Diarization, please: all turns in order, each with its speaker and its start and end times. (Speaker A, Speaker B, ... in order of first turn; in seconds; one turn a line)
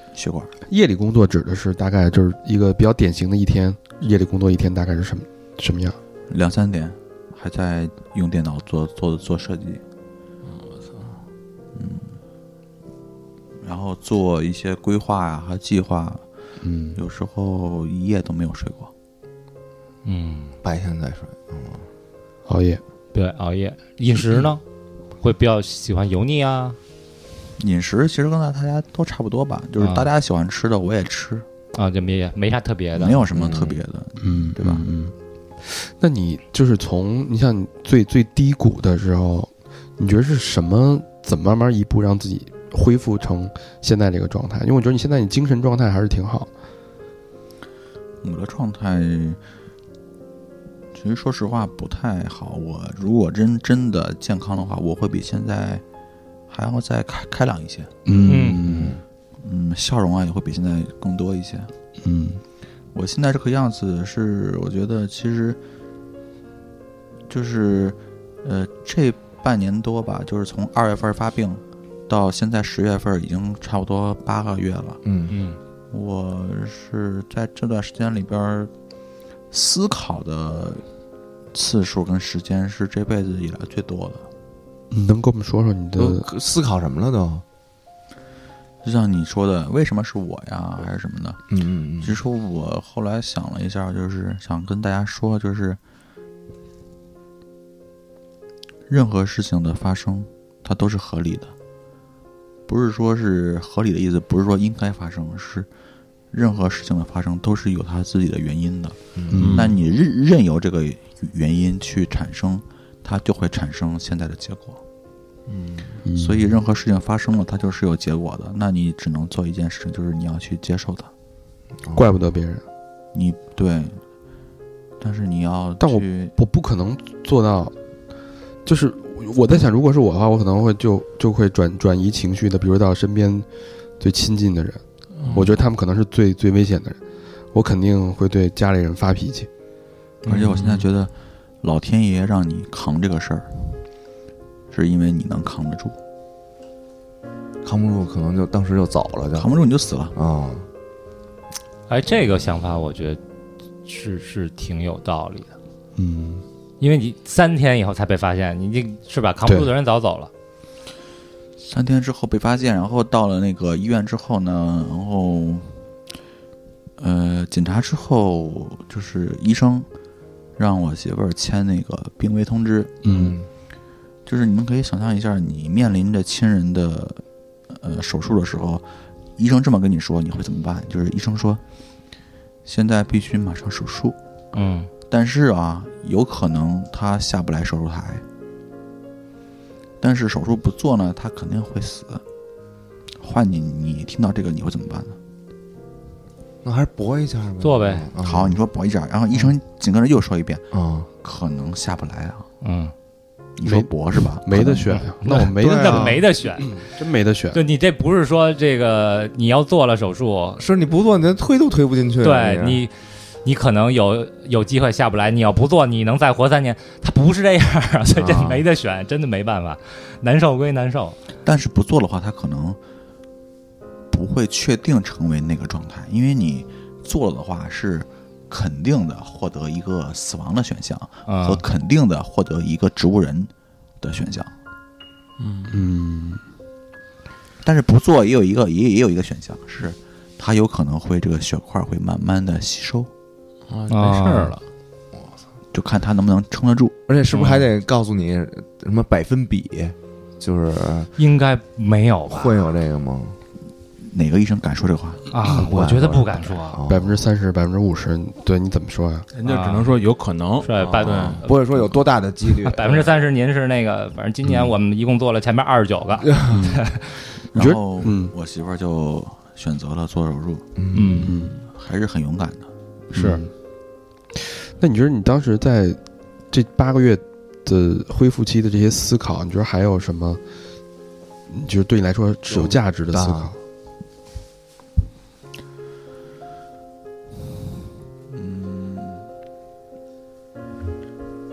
Speaker A: 0.1-0.5
Speaker B: 0.7-6.0
Speaker A: 6.3-9.8
Speaker C: 10.4-11.2
Speaker A: 11.8-12.2
Speaker A: 13.6-16.2
Speaker B: 16.6-17.0
Speaker A: 16.9-18.9
Speaker D: 20.1-20.6
Speaker E: 20.6-21.9
Speaker B: 22.5-22.8
Speaker D: 23.1-24.6
Speaker D: 25.2-26.8
Speaker A: 27.6-31.5
Speaker D: 29.8-30.1
Speaker D: 31.8-33.3
Speaker A: 32.9-34.9
Speaker E: 33.3-33.8
Speaker B: 34.2-46.5
Speaker A: 48.2-49.4
Speaker A: 50.9-55.8
Speaker A: 56.5-57.9
Speaker B: 58.1-59.0
Speaker D: 58.2-58.7
Speaker E: 58.7-59.0
Speaker A: 59.4-61.7
Speaker B: 62.0-62.4
Speaker A: 62.9-65.6
Speaker A: 67.3-75.0
Speaker E: 75.0-75.3
Speaker D: 75.3-75.6
Speaker A: 75.9-78.7
Speaker A: 79.5-80.8
Speaker A: 81.5-84.3
Speaker B: 84.9-86.3
Speaker E: 86.0-87.4
Speaker A: 88.8-91.4
Speaker E: 91.5-92.2
Speaker A: 92.0-95.8
Speaker A: 98.9-101.5
Speaker A: 102.7-105.7
Speaker A: 106.3-114.8
Speaker E: 109.2-109.5
Speaker B: 109.3-109.7
Speaker C: 109.4-109.7
Speaker E: 115.5-116.0
Speaker B: 116.0-116.5
Speaker A: 116.1-121.1
Speaker B: 122.0-122.6
Speaker A: 123.1-124.0
Speaker A: 125.0-126.3
Speaker B: 125.8-127.7
Speaker B: 128.7-133.5
Speaker B: 134.0-137.0
Speaker C: 135.2-135.6
Speaker B: 137.5-139.5
Speaker A: 140.2-143.5
Speaker C: 140.3-140.9
Speaker A: 144.7-146.0
Speaker E: 147.6-149.5
Speaker A: 149.3-150.2
Speaker E: 150.2-150.7
Speaker D: 151.9-153.2
Speaker D: 153.8-155.5
Speaker B: 156.0-156.4
Speaker D: 156.8-160.3
Speaker B: 159.4-159.7
Speaker A: 161.6-165.8
Speaker A: 167.0-169.9
Speaker A: 170.6-173.0
Speaker B: 173.0-173.4
Speaker E: 173.1-173.5
Speaker A: 174.3-181.6
Speaker A: 182.7-184.2
Speaker D: 184.5-184.9
Speaker A: 185.1-188.2
Speaker A: 190.0-192.2
Speaker A: 193.2-195.2
Speaker E: 196.6-198.6
Speaker D: 197.6-198.1
Speaker A: 198.2-200.7
Speaker E: 200.7-201.1
Speaker A: 201.2-202.5
Speaker D: 202.6-202.9
Speaker A: 203.6-204.9
Speaker B: 203.7-207.6
Speaker D: 204.9-206.8
Speaker E: 205.6-206.3
Speaker D: 207.5-210.6
Speaker E: 210.6-212.8
Speaker D: 212.2-212.9
Speaker D: 213.4-221.2
Speaker E: 218.1-218.7
Speaker A: 221.4-222.8
Speaker A: 224.1-234.5
Speaker D: 231.3-231.7
Speaker C: 235.4-235.8
Speaker B: 235.7-236.4
Speaker A: 237.6-243.1
Speaker C: 243.7-244.6
Speaker D: 243.9-244.6
Speaker A: 245.7-247.0
Speaker E: 247.1-251.1
Speaker D: 247.4-247.6
Speaker D: 251.2-252.6
Speaker E: 252.3-253.4
Speaker A: 254.0-255.2
Speaker D: 255.3-256.8
Speaker E: 255.4-257.2
Speaker B: 256.9-259.3
Speaker C: 259.3-261.5
Speaker D: 259.4-260.0
Speaker D: 260.6-261.9
Speaker E: 261.0-263.1
Speaker D: 262.5-267.3
Speaker E: 266.2-266.6
Speaker B: 266.5-266.8
Speaker A: 267.5-270.7
Speaker B: 267.5-268.3
Speaker E: 270.8-271.4
Speaker D: 270.9-271.5
Speaker B: 271.2-271.5
Speaker A: 271.7-272.7
Speaker B: 273.1-273.4
Speaker D: 273.1-273.5
Speaker B: 274.4-276.0
Speaker B: 276.5-280.4
Speaker B: 281.5-283.6
Speaker E: 282.5-283.5
Speaker A: 288.3-289.3